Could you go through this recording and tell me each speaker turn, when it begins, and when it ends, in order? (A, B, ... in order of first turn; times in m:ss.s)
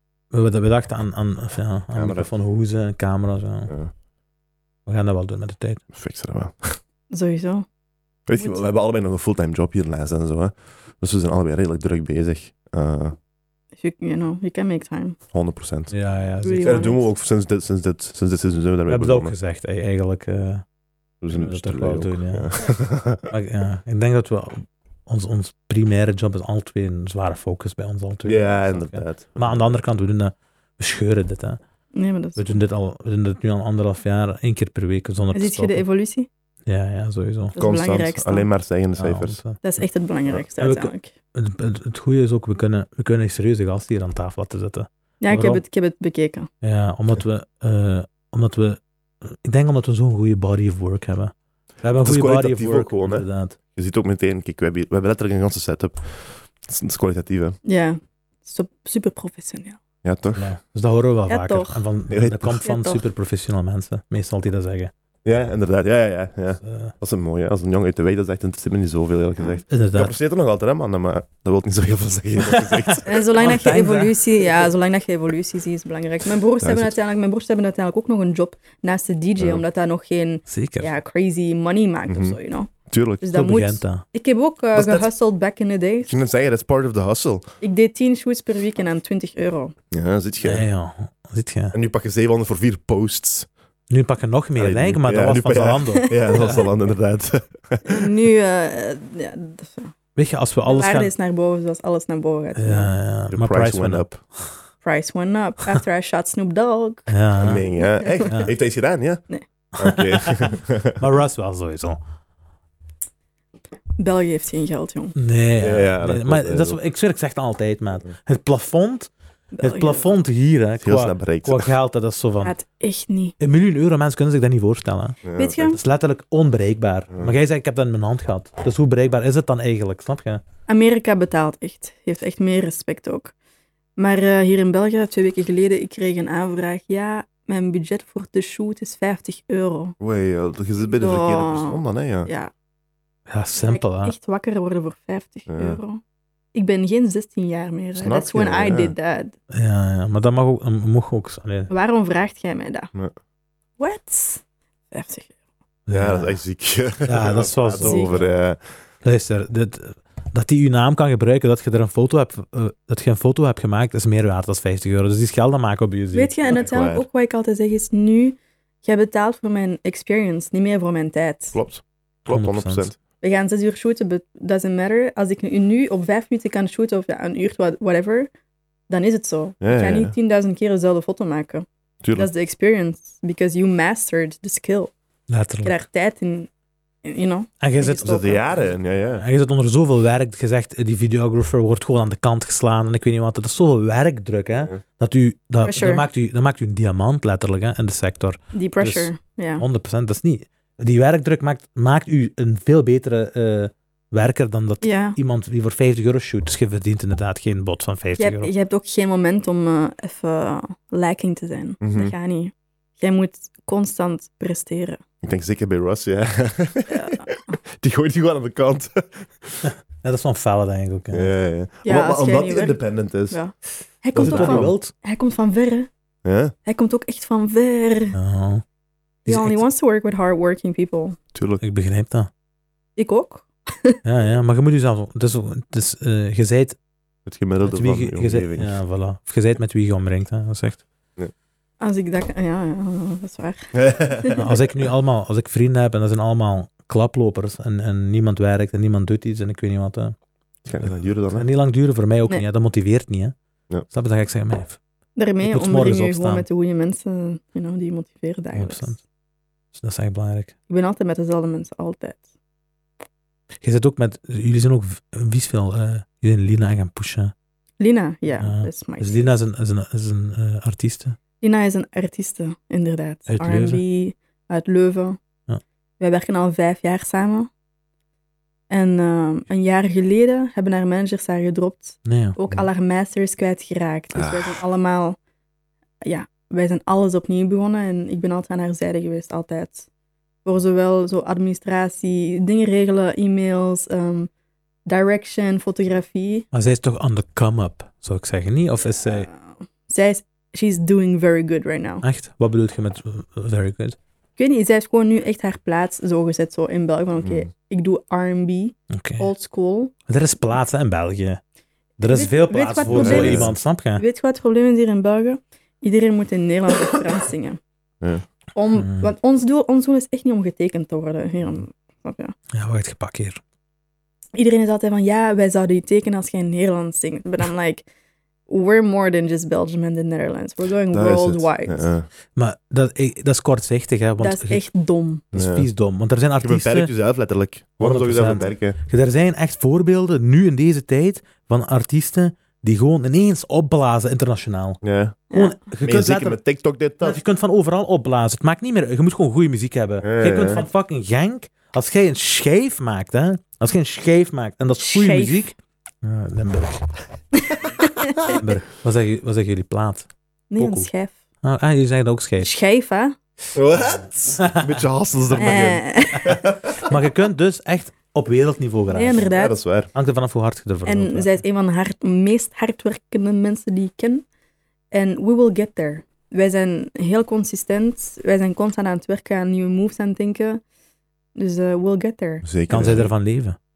0:00.3-0:03.7 A
0:01.9-0:02.3 B
0:04.9-0:05.8 A
0:05.9-0:06.8 B
0:07.1-0:07.7 C
0:08.3-0:13.2 B
0:13.8-0:15.2 C
0:15.3-0:16.0 B
0:15.9-0:16.9 A
0:16.4-0:17.0 C
0:16.6-0:19.4 B
0:18.9-0:20.6 A
0:21.2-0:23.3 B
0:21.3-0:22.6 A
0:23.3-0:31.6 A
0:28.3-0:29.6 B
0:31.9-0:32.6 C
0:32.4-0:35.8 A
0:35.3-0:36.3 C
0:36.7-0:37.6 A
0:37.6-0:38.5 C
0:37.6-0:39.4 B
0:39.0-0:39.6 A
0:39.6-0:41.1 C
0:40.6-0:45.6 A
0:45.2-0:46.5 C
0:46.6-0:53.6 A
0:52.0-0:57.6 B
0:57.6-0:59.8 C
1:00.0-1:00.5 B
1:00.4-1:04.9 A
1:01.3-1:01.8 C
1:02.1-1:02.6 B
1:02.6-1:03.0 C
1:05.2-1:13.2 B
1:06.6-1:06.9 A
1:09.7-1:10.1 A
1:12.5-1:14.2 A
1:13.1-1:26.1 C
1:16.6-1:17.0 B
1:19.4-1:19.6 B
1:20.5-1:20.9 A
1:22.1-1:23.2 B
1:23.3-1:24.0 A
1:24.7-1:25.1 B
1:26.1-1:27.4 B
1:27.6-1:29.8 C
1:29.9-1:30.7 B
1:30.4-1:31.8 A
1:31.7-1:33.5 B
1:33.9-1:36.7 A
1:34.6-1:38.1 B
1:37.9-1:39.9 C
1:40.2-1:41.1 A
1:40.7-1:42.9 C
1:42.6-1:44.6 A
1:43.3-1:44.2 B
1:44.8-1:47.1 C
1:47.1-1:47.7 A
1:47.4-1:49.2 B
1:47.8-1:48.5 C
1:48.3-1:48.5 A
1:49.8-1:51.0 B
1:49.8-1:52.0 A
1:54.0-1:55.2 C
1:55.2-1:59.1 A
1:55.6-1:56.8 B
1:59.5-2:00.1 C
1:59.6-2:02.6 A
2:00.8-2:01.7 B
2:02.4-2:03.4 C
2:03.4-2:10.4 A
2:05.2-2:05.7 B
2:05.4-2:05.8 C
2:10.7-2:13.3 C
2:14.0-2:20.0 C
2:20.0-2:22.3 B
2:20.9-2:22.5 C
2:23.3-2:24.1 A
2:23.6-2:26.0 C
2:25.5-2:25.8 B
2:26.5-2:29.3 C
2:28.0-2:28.9 B
2:29.5-2:31.7 A
2:31.7-2:32.9 C
2:33.8-2:35.3 C
2:35.9-2:36.4 A
2:35.9-2:38.6 B
2:37.0-2:38.2 A
2:37.8-2:38.1 C
2:39.0-2:46.3 A
2:46.1-2:51.6 C
2:46.4-2:47.1 B
2:51.5-2:53.0 B
2:52.3-2:52.9 A
2:53.2-2:58.3 C
2:58.9-3:04.9 C
2:59.6-3:00.1 B
3:02.0-3:02.3 B
3:05.3-3:05.8 A
3:05.6-3:06.5 C
3:07.0-3:08.7 C
3:07.6-3:08.2 A
3:08.0-3:09.2 B
3:09.2-3:28.5 A
3:15.6-3:16.1 C
3:18.5-3:19.6 C
3:24.8-3:25.2 C
3:28.2-3:35.0 C
3:31.8-3:32.1 B
3:35.2-3:39.7 B
3:36.9-3:37.6 C
3:39.6-3:41.3 A
3:41.1-3:43.4 B
3:41.8-3:42.8 C
3:43.3-3:45.9 C
3:44.1-3:44.8 B
3:44.2-3:44.9 A
3:46.2-3:46.5 B
3:46.6-3:48.2 C
3:48.1-3:48.6 A
3:49.3-3:51.2 C
3:49.3-3:49.6 A
3:51.3-3:51.6 B
3:51.6-3:52.3 A
3:53.0-3:54.0 C
3:54.0-3:56.8 A
3:57.3-3:58.8 B
3:57.6-4:00.8 A
4:01.8-4:04.4 C
4:03.8-4:04.4 B
4:04.4-4:10.2 A
4:10.7-4:11.5 B
4:10.8-4:13.4 A
4:13.9-4:14.8 A
4:15.2-4:18.9 C
4:15.4-4:16.5 A
4:18.5-4:19.0 A
4:19.7-4:20.5 A
4:20.7-4:22.2 C
4:23.6-4:27.3 A
4:27.8-4:29.3 C
4:28.4-4:31.2 A
4:31.4-4:35.2 C
4:33.3-4:33.8 A
4:36.0-4:37.5 C
4:38.7-4:45.2 C
4:42.0-4:42.4 A
4:44.1-4:44.6 B
4:46.0-4:49.9 C
4:50.4-4:54.3 C
4:54.9-4:56.5 C
4:56.5-4:59.3 A
4:59.1-5:02.0 C
5:02.0-5:04.0 A
5:04.4-5:09.9 C
5:07.2-5:07.5 B
5:08.9-5:09.3 A
5:10.1-5:11.4 A
5:12.0-5:14.0 A
5:12.1-5:17.6 C
5:12.9-5:13.5 B
5:18.6-5:22.4 C
5:18.7-5:19.1 A
5:22.5-5:23.4 A
5:24.4-5:27.9 C
5:28.5-5:31.9 C
5:30.9-5:32.1 B
5:32.4-5:34.6 A
5:34.2-5:35.3 C
5:35.3-5:35.7 B
5:35.3-5:36.9 A
5:36.4-5:38.8 B
5:37.8-5:44.8 A
5:44.8-5:45.2 B
5:45.3-5:45.6 C
5:45.3-5:46.4 A
5:45.8-5:47.2 B
5:47.0-5:56.9 A
5:50.0-5:50.6 B
5:54.8-5:55.4 C
5:57.4-5:58.4 C
5:58.3-6:00.1 A
6:00.5-6:01.1 C
6:00.6-6:00.9 A
6:01.4-6:02.5 A
6:02.4-6:03.2 C
6:03.6-6:06.7 B
6:04.4-6:04.8 A
6:05.4-6:06.4 C
6:06.2-6:09.3 A
6:08.9-6:09.6 C
6:09.4-6:09.9 B
6:09.9-6:11.4 A
6:10.8-6:14.2 C
6:14.9-6:20.6 C
6:21.4-6:22.4 C
6:22.4-6:23.1 B
6:22.7-6:23.6 A